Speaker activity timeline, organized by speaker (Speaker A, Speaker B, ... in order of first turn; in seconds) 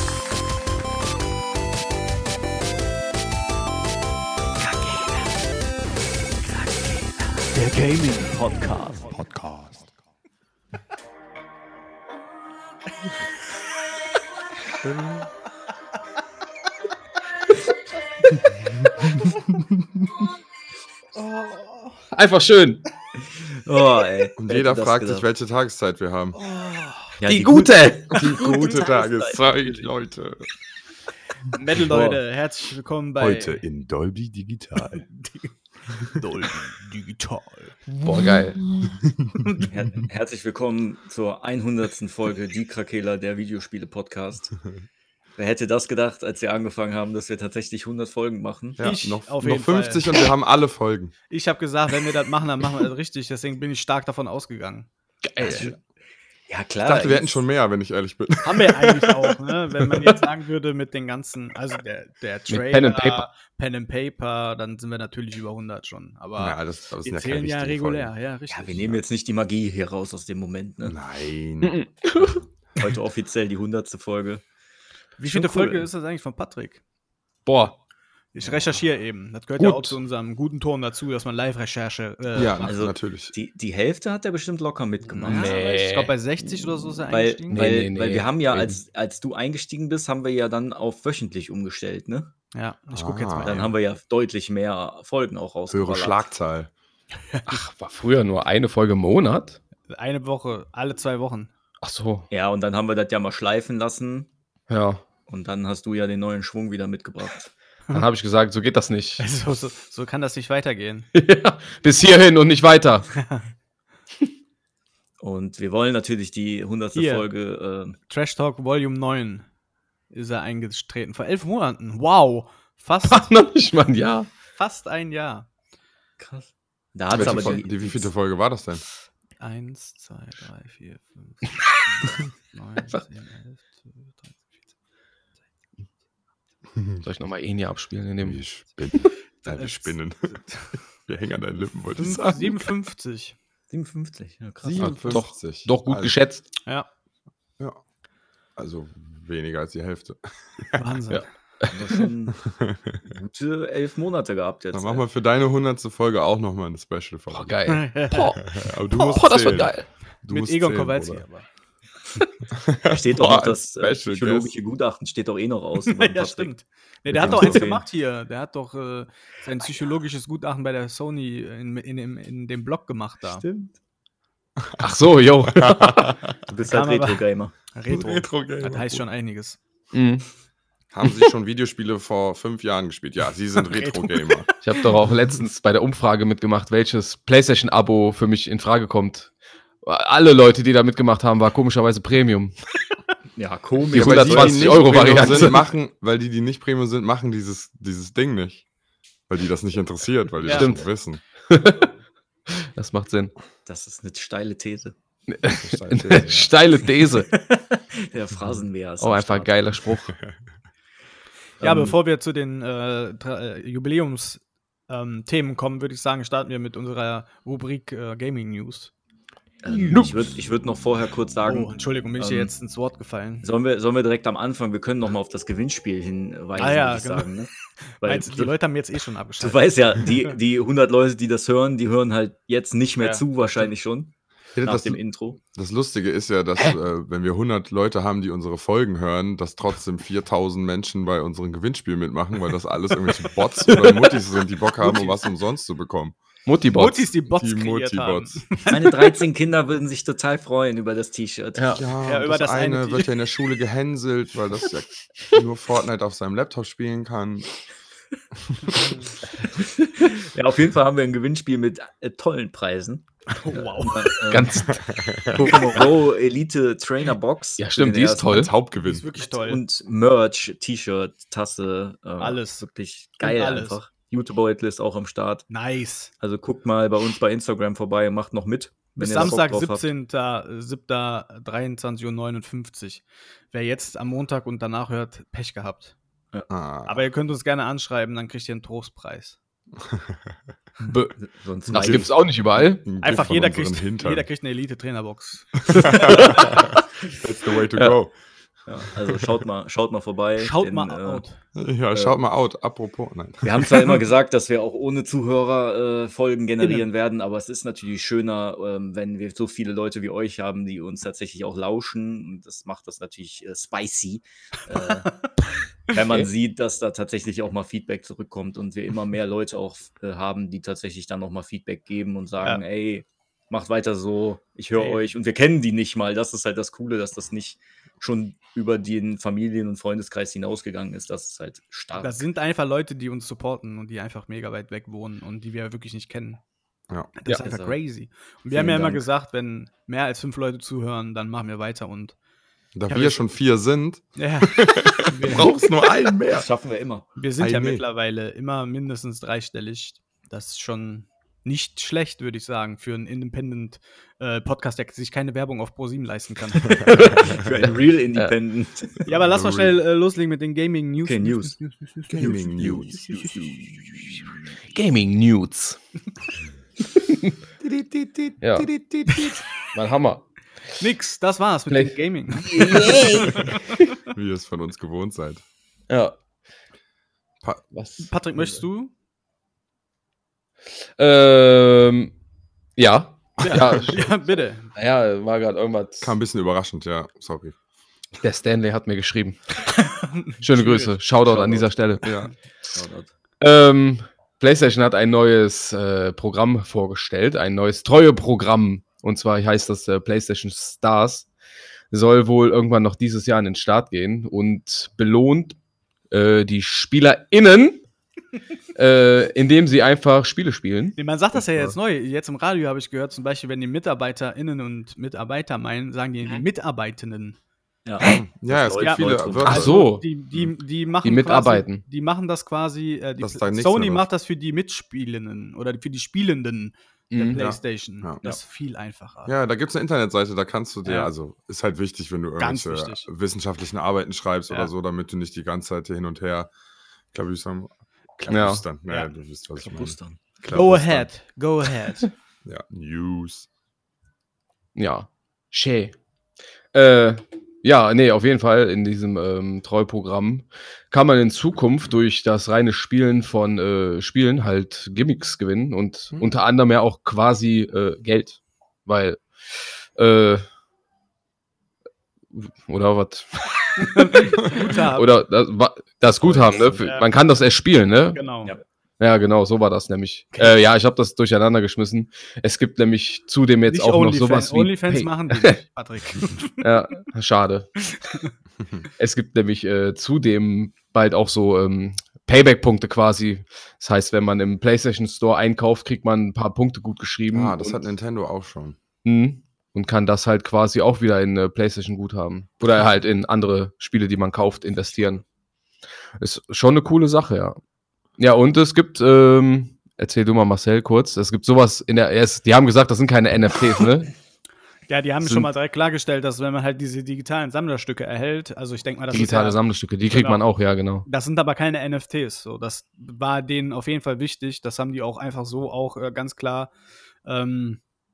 Speaker A: 6.6-7.1, 23.3-25.3, 27.2-29.9, 31.9-32.2, 39.7-44.6, 45.4-48.8, 55.5-55.7, 56.5-57.4, 68.5-71.0, 72.8-74.4, 82.6-85.6, 87.1-92.3, 93.4-96.3, 102.3-104.3, 105.3-107.5, 115.2-118.0, 126.2-128.1, 143.7-145.2, 151.7-152.4, 153.1-155.0, 162.9-166.5, 167.1-167.8, 173.2-173.8, 176.5-177.5, 193.4-195.5, 203.7-204.9, 207.0-209.6, 219.6-222.5, 223.4-228.5, 229.4-235.4, 248.7-251.9, 259.4-264.7, 265.3-268.5, 269.3-275.5, 276.2-279.9, 290.8-292.1, 298.7-301.2, 303.4-315.2, 315.9-332.2, 337.4-337.8, 338.5-339.1, 346.3-347.1, 356.9-359.1, 361.0-361.6, 362.2-364.4, 392.7-393.1, 417.9-419.7, 439.6-440.2, 466.2-466.8
Speaker B: 7.5-9.2, 21.2-21.9, 26.4-27.1, 31.5-33.6, 36.1-37.8, 48.8-50.2, 51.3-54.9, 58.4-69.0, 75.2-76.8, 78.3-82.7, 85.2-87.6, 92.5-93.8, 97.3-97.6, 99.9-101.5, 109.2-111.1, 113.2-113.5, 117.0-117.3, 118.1-119.5, 120.1-123.3, 124.6-125.5, 129.4-134.5, 139.5-140.8, 142.0-143.3, 150.8-151.3, 157.7-158.4, 160.3-161.5, 165.8-173.4, 176.7-179.6, 183.6-184.4, 200.4-200.7, 211.6-218.9, 221.5-223.5, 226.6-227.3, 228.0-230.3, 233.0-233.2, 244.8-245.1, 246.7-249.2, 252.0-253.1, 258.7-259.1, 263.3-264.1, 268.8-269.6, 272.2-272.6, 273.2-273.8, 275.5-276.1, 279.0-285.9, 286.9-289.4, 293.0-296.3, 300.4-301.4, 324.8-325.0, 332.0-336.4, 337.2-342.2, 342.9-343.2, 344.2-345.5, 347.2-356.9, 359.1-363.5, 370.8-373.7, 378.0-378.9, 383.4-384.7, 389.8-390.4, 411.0-417.4, 418.8-429.3, 430.9-431.1, 432.4-433.1, 440.5-442.1, 463.9-465.1, 466.8-467.1, 468.1-468.5, 473.7-476.9, 478.0-478.3, 504.9-510.4, 511.1-516.7, 517.2-517.8
Speaker C: 22.1-22.8, 27.3-28.3, 38.0-38.6, 55.3-55.7, 62.5-63.2, 71.6-72.4, 75.5-75.8, 77.5-77.8, 79.6-80.0, 85.2-86.2, 87.5-88.8, 97.5-99.6, 101.8-102.3, 104.7-105.0, 107.9-109.3, 111.1-113.1, 123.1-124.3, 127.2-127.5, 137.0-138.4, 144.8-146.5, 151.1-151.8, 157.3-159.9, 174.8-176.2, 179.9-180.2, 184.6-189.3, 189.8-192.5, 193.9-195.6, 200.5-200.8, 201.5-201.9, 202.5-203.3, 205.3-207.3, 209.0-210.2, 211.6-211.9, 219.7-220.2, 246.5-247.1, 251.6-251.8, 264.3-265.8, 267.6-268.5, 290.9-291.1, 291.7-292.9, 295.8-296.7, 356.9-358.3, 364.7-365.8, 366.9-367.3, 368.4-370.3, 371.7-373.8, 375.9-376.2, 377.7-378.5, 381.0-382.1, 382.8-384.2, 384.7-386.1, 388.2-389.7, 390.4-392.7, 393.4-401.3, 401.9-405.6, 406.1-407.9, 408.8-411.0, 419.4-420.1, 421.0-421.8, 427.1-427.4, 438.3-438.6, 444.8-445.9, 446.7-459.3, 460.0-460.4, 462.3-468.2, 469.0-475.6, 476.6-477.8, 479.0-487.9, 489.0-495.2, 496.2-497.6, 498.2-504.1, 505.2-505.5, 509.1-511.1
Speaker D: 24.4-26.4, 28.1-30.5, 33.2-35.1, 38.9-39.3, 48.8-51.1, 55.5-55.7, 56.8-59.3, 66.4-68.1, 70.8-72.4, 82.3-83.3, 92.9-93.7, 95.7-96.7, 127.1-128.8, 138.2-140.4, 141.0-142.7, 144.6-146.2, 148.6-150.8, 152.5-153.0, 154.7-157.5, 158.5-161.2, 162.5-164.5, 167.1-167.7, 174.6-176.4, 177.9-179.0, 180.9-184.5, 193.9-198.7, 199.3-201.2, 205.6-206.5, 234.6-235.0, 235.5-246.2, 247.3-248.4, 251.8-257.5, 258.5-258.8, 264.9-265.5, 268.2-269.1, 286.5-287.1, 289.8-290.4, 291.7-294.3, 295.7-298.1, 301.6-303.9, 342.8-346.5, 347.4-347.8, 356.9-357.2, 359.3-359.8, 362.1-363.0, 374.1-375.4, 383.4-383.8, 386.0-387.6, 390.6-392.3, 418.0-419.8, 423.2-424.1, 427.4-428.2, 429.3-436.5, 437.1-441.1, 442.4-443.5, 456.1-456.4, 487.3-488.8